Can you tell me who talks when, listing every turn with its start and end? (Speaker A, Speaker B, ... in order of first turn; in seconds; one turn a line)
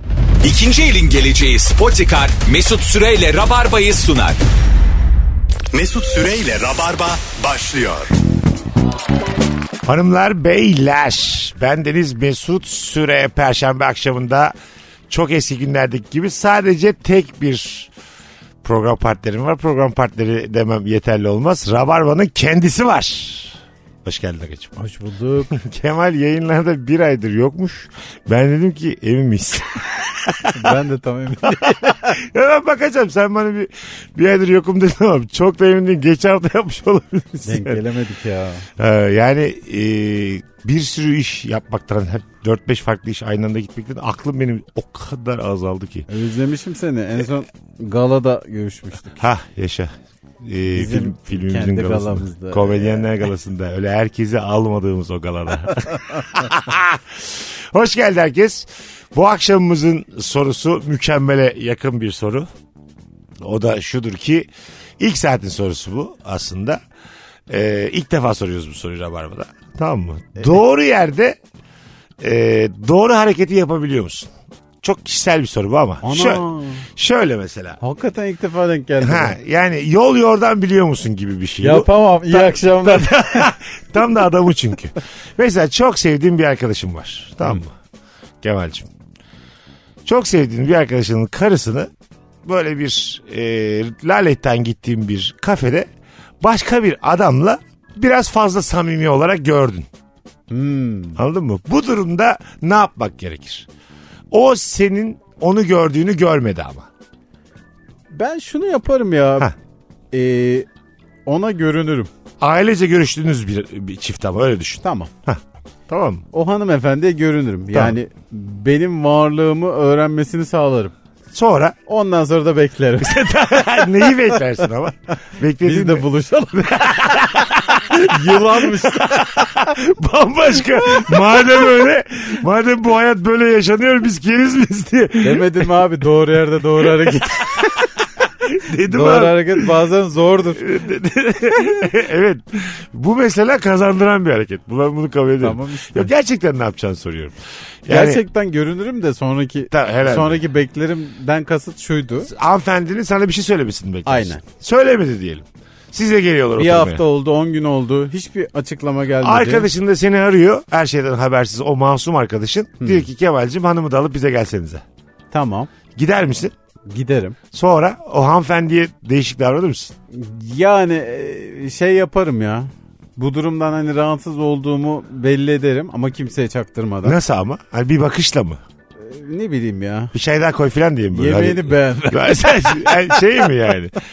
Speaker A: 0.4-4.4
Speaker B: 5.7-8.1
Speaker C: 9.8-14.5
Speaker C: 15.1-17.9
Speaker C: 18.6-24.7
Speaker D: 24.8-25.6
Speaker C: 25.5-30.7
Speaker D: 30.5-32.2
Speaker C: 31.5-37.8
Speaker D: 37.4-38.7
Speaker C: 38.8-46.1
Speaker D: 46.1-49.2
Speaker C: 49.2-62.5
Speaker D: 50.7-53.1
Speaker C: 63.4-64.5
Speaker C: 65.0-66.8
Speaker C: 67.5-71.4
Speaker C: 72.2-74.3
Speaker C: 74.8-77.8
Speaker D: 76.0-76.8
Speaker D: 77.8-79.4
Speaker C: 79.0-87.7
Speaker D: 81.6-83.5
Speaker C: 88.4-88.9
Speaker C: 90.0-91.9
Speaker C: 92.4-95.9
Speaker C: 96.4-99.9
Speaker D: 100.5-101.2
Speaker C: 101.2-103.7
Speaker C: 104.3-106.9
Speaker D: 108.1-109.5
Speaker D: 110.1-110.7
Speaker D: 111.2-112.1
Speaker C: 112.4-116.2
Speaker D: 114.8-115.1
Speaker D: 116.3-120.9
Speaker C: 121.3-121.8
Speaker D: 121.9-124.7
Speaker C: 123.0-135.7
Speaker D: 125.6-129.7
Speaker D: 130.8-131.6
Speaker D: 135.2-137.9
Speaker C: 136.8-139.7
Speaker D: 138.9-140.7
Speaker C: 140.6-148.2
Speaker D: 145.4-146.1
Speaker D: 147.9-152.3
Speaker C: 149.7-150.4
Speaker C: 152.3-157.0
Speaker D: 154.0-154.4
Speaker D: 156.6-159.7
Speaker C: 159.2-164.8
Speaker D: 162.8-163.1
Speaker D: 165.3-165.7
Speaker C: 165.9-166.5
Speaker D: 166.9-167.4
Speaker C: 167.5-169.9
Speaker D: 170.1-177.2
Speaker C: 177.0-178.6
Speaker D: 179.0-180.1
Speaker C: 180.1-183.9
Speaker D: 181.1-183.1